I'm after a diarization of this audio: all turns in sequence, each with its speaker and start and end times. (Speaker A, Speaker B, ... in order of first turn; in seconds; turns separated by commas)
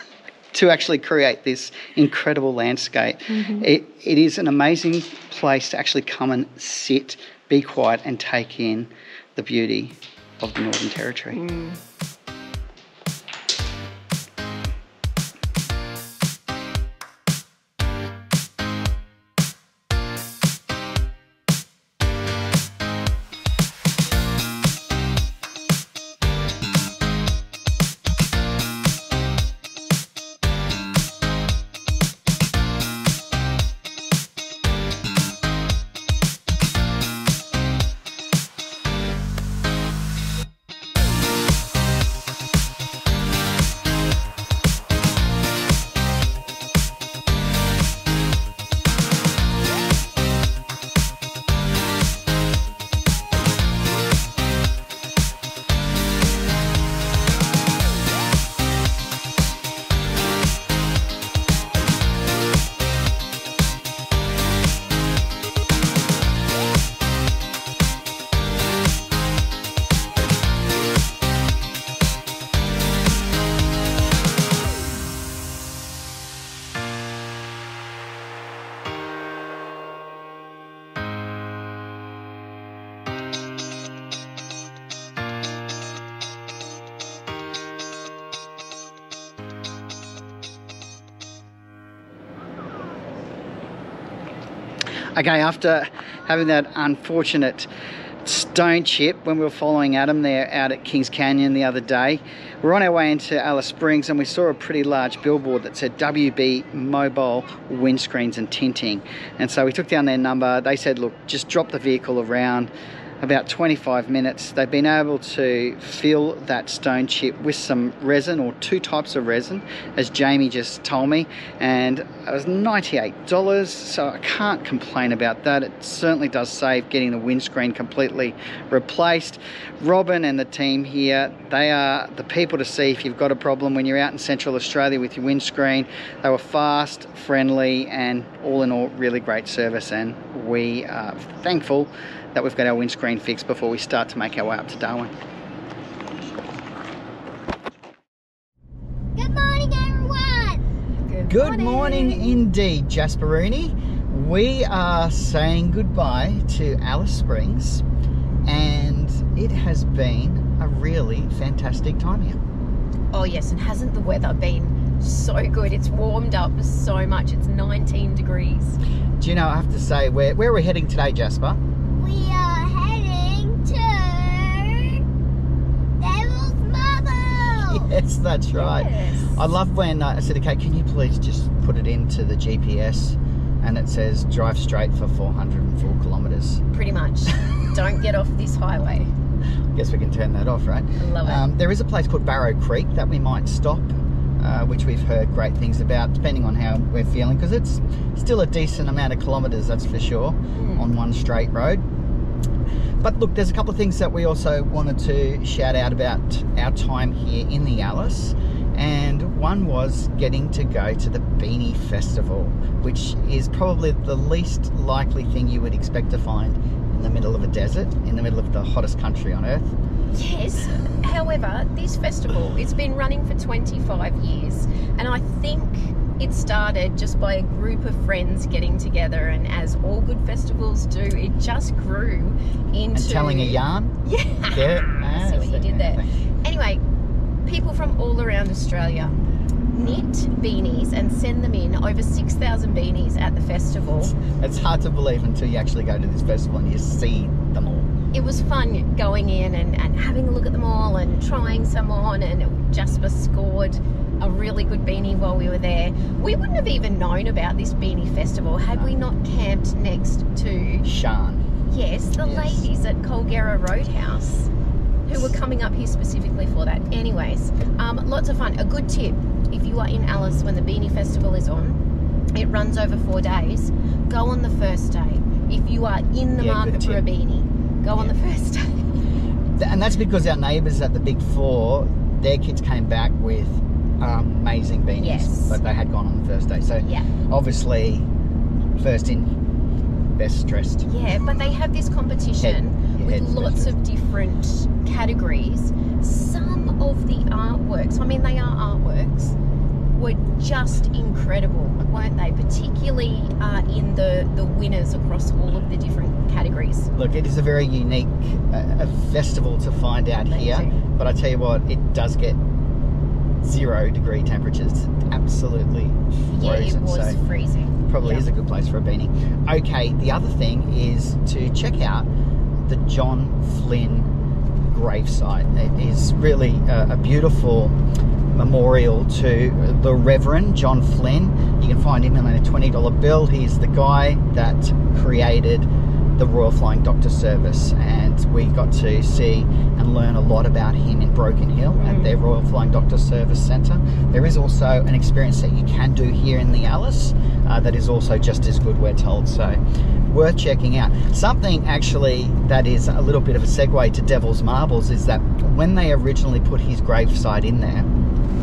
Speaker A: 0.5-11.4, Speaker B: 3.3-3.7, Speaker B: 11.3-11.8, Speaker A: 95.1-97.7, Speaker A: 98.2-145.1, Speaker C: 149.2-150.6, Speaker B: 151.1-152.3, Speaker A: 151.3-157.8, Speaker A: 158.4-162.4, Speaker B: 163.1-168.8, Speaker A: 169.2-171.6, Speaker C: 171.9-175.0, Speaker C: 176.0-177.9, Speaker A: 177.7-186.6, Speaker B: 178.5-179.4, Speaker B: 186.7-189.1, Speaker A: 189.7-201.8, Speaker B: 191.0-191.4, Speaker B: 200.5-200.9, Speaker A: 203.0-219.7, Speaker B: 220.1-236.8, Speaker A: 232.9-233.9, Speaker A: 234.5-236.1, Speaker B: 237.4-239.2, Speaker B: 239.7-244.1, Speaker A: 244.1-247.9, Speaker B: 248.1-260.9, Speaker A: 258.7-259.0, Speaker A: 260.8-261.5, Speaker B: 261.6-264.5, Speaker A: 262.2-262.7, Speaker B: 265.1-271.8, Speaker B: 272.3-279.0, Speaker A: 276.4-277.0, Speaker A: 279.6-288.1, Speaker B: 285.0-285.6, Speaker B: 286.8-287.1, Speaker A: 288.8-289.3, Speaker A: 290.1-290.9, Speaker B: 290.8-299.4, Speaker A: 292.4-293.8, Speaker B: 299.9-306.9, Speaker A: 306.9-312.4, Speaker B: 310.2-310.7, Speaker A: 313.4-317.2, Speaker B: 316.3-318.3, Speaker A: 317.9-322.1, Speaker A: 322.6-324.1, Speaker A: 324.7-327.8, Speaker A: 328.3-357.9, Speaker B: 341.8-342.1